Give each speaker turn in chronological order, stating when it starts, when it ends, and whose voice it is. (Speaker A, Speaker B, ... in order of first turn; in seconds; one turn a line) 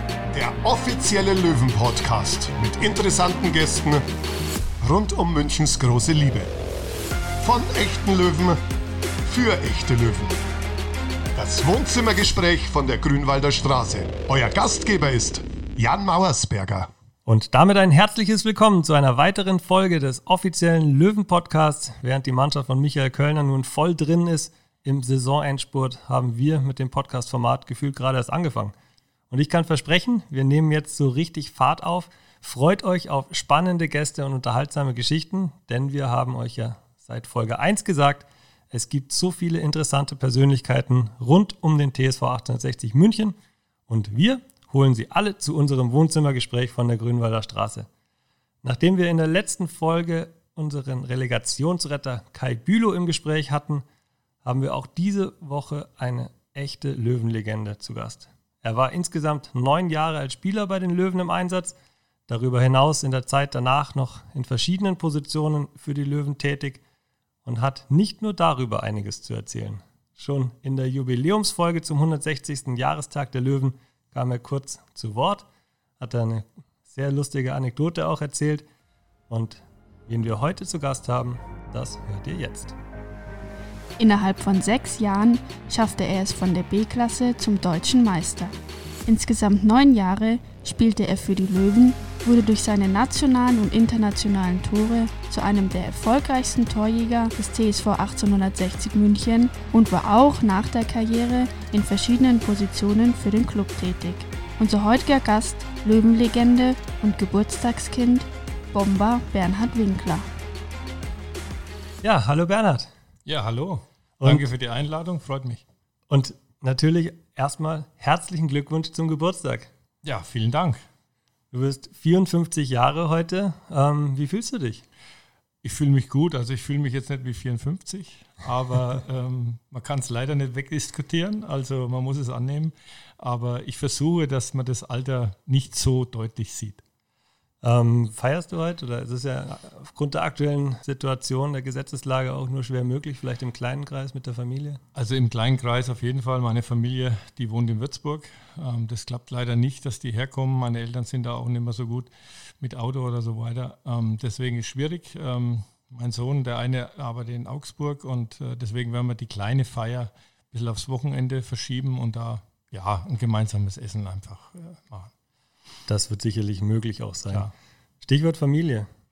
Speaker A: 0.3-4.0
Speaker A: 4.8-6.5
Speaker A: 7.4-8.6
Speaker A: 9.3-10.4
Speaker A: 11.3-16.9
Speaker B: 17.3-28.8
Speaker B: 29.3-43.4
Speaker B: 43.9-47.9
Speaker B: 48.6-53.8
Speaker B: 54.4-61.8
Speaker B: 62.3-66.8
Speaker B: 67.5-75.5
Speaker B: 76.0-78.7
Speaker B: 79.3-82.8
Speaker C: 84.0-88.5
Speaker C: 89.1-110.3
Speaker B: 112.0-112.9
Speaker D: 113.3-115.6
Speaker B: 114.2-114.5
Speaker B: 116.1-119.7
Speaker D: 120.0-120.8
Speaker B: 121.5-124.8
Speaker D: 125.6-136.8
Speaker B: 137.6-144.8
Speaker D: 144.9-165.1
Speaker B: 165.9-167.5
Speaker B: 168.0-168.9